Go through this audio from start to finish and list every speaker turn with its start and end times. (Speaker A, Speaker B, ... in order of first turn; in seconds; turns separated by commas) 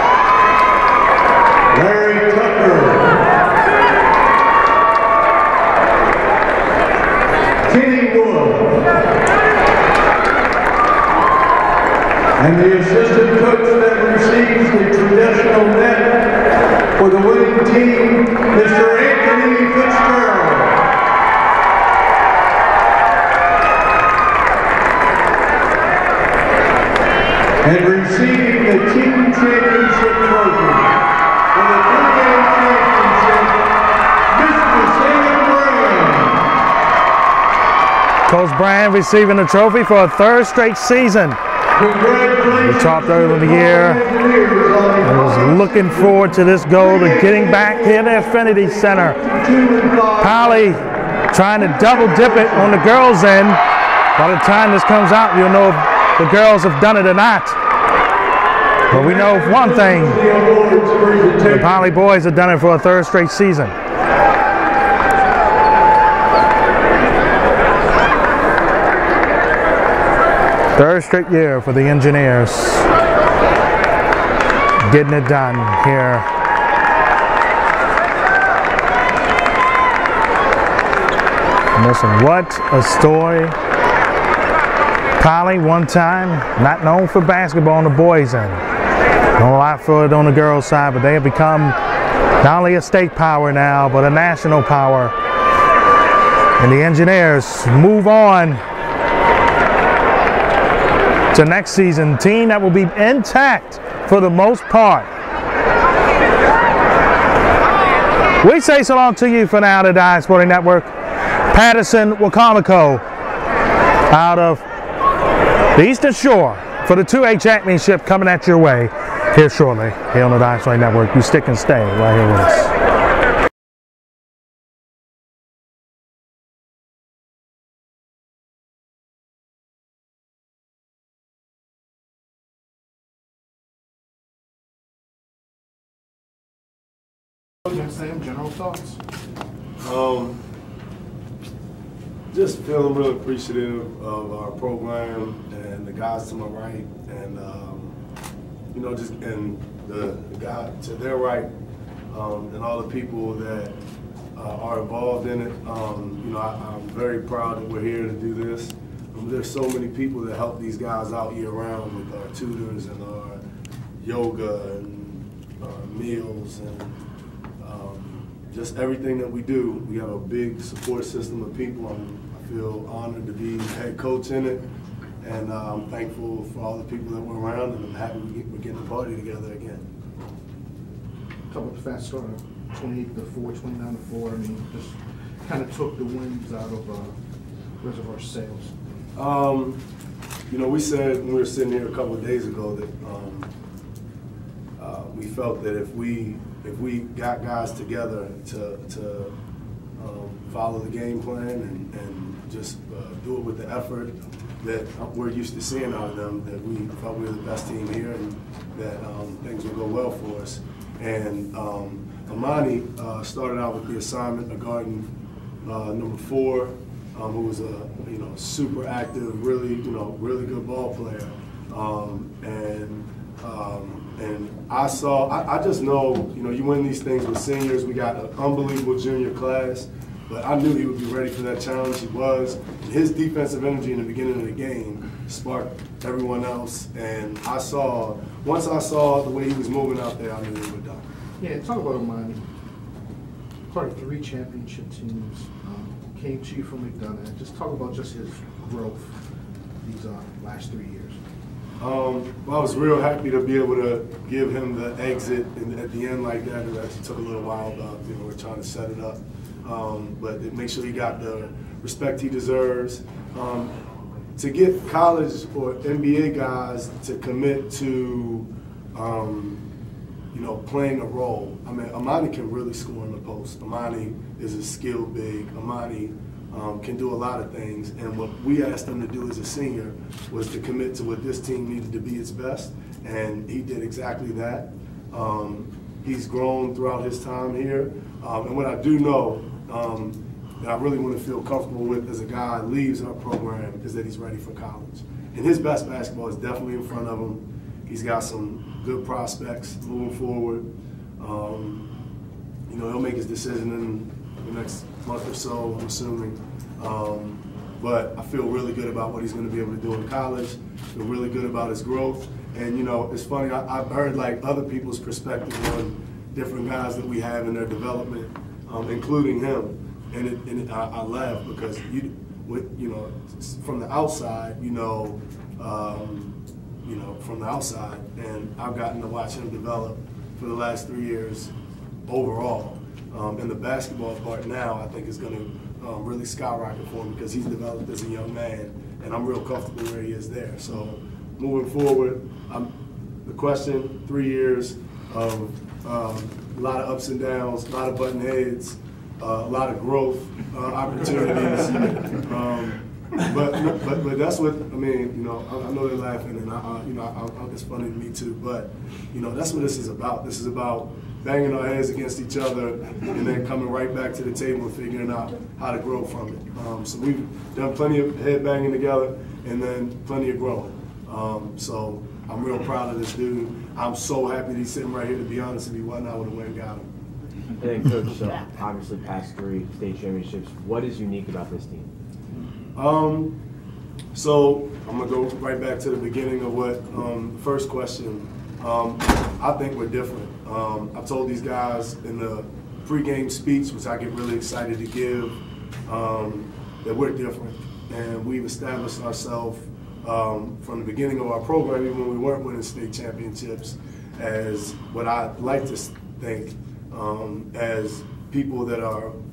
Speaker A: 1.7-3.1, Speaker A: 7.6-8.8, Speaker A: 12.4-16.2, Speaker A: 16.9-20.8, Speaker A: 27.6-30.9, Speaker A: 31.5-33.6, Speaker A: 34.3-36.4, Speaker B: 38.3-41.4, Speaker A: 41.7-50.8, Speaker B: 42.5-44.0, Speaker B: 45.0-49.2, Speaker B: 50.2-50.8, Speaker B: 51.3-53.6, Speaker A: 51.5-52.8, Speaker B: 54.1-57.5, Speaker A: 58.9-62.0, Speaker B: 58.9-60.2, Speaker B: 61.5-63.7, Speaker B: 70.8-72.8, Speaker B: 74.9-76.2, Speaker B: 81.8-83.5, Speaker B: 85.2-88.6, Speaker B: 89.3-91.7, Speaker B: 92.4-95.1, Speaker B: 96.6-98.6, Speaker B: 101.3-105.1, Speaker B: 108.4-110.9, Speaker B: 111.5-113.0, Speaker B: 114.1-114.6, Speaker B: 115.8-122.7, Speaker C: 137.7-139.0, Speaker D: 139.8-140.4, Speaker D: 142.3-148.0, Speaker D: 148.7-151.5, Speaker D: 152.1-153.8, Speaker D: 154.3-163.4, Speaker D: 164.0-167.0, Speaker D: 167.6-174.7, Speaker D: 175.2-179.8, Speaker C: 181.5-187.1, Speaker C: 187.8-188.8, Speaker D: 189.1-189.8, Speaker D: 190.5-193.5, Speaker D: 194.8-199.3, Speaker D: 200.0-215.1, Speaker D: 215.6-241.1, Speaker C: 241.4-242.4, Speaker C: 243.7-249.2, Speaker C: 249.8-251.2, Speaker D: 251.8-263.7, Speaker D: 264.4-269.6, Speaker D: 270.3-300.6, Speaker D: 301.2-301.9, Speaker D: 302.7-331.5, Speaker D: 332.1-342.7, Speaker D: 343.2-376.9, Speaker E: 377.6-381.9, Speaker D: 382.7-383.4, Speaker D: 384.1-409.2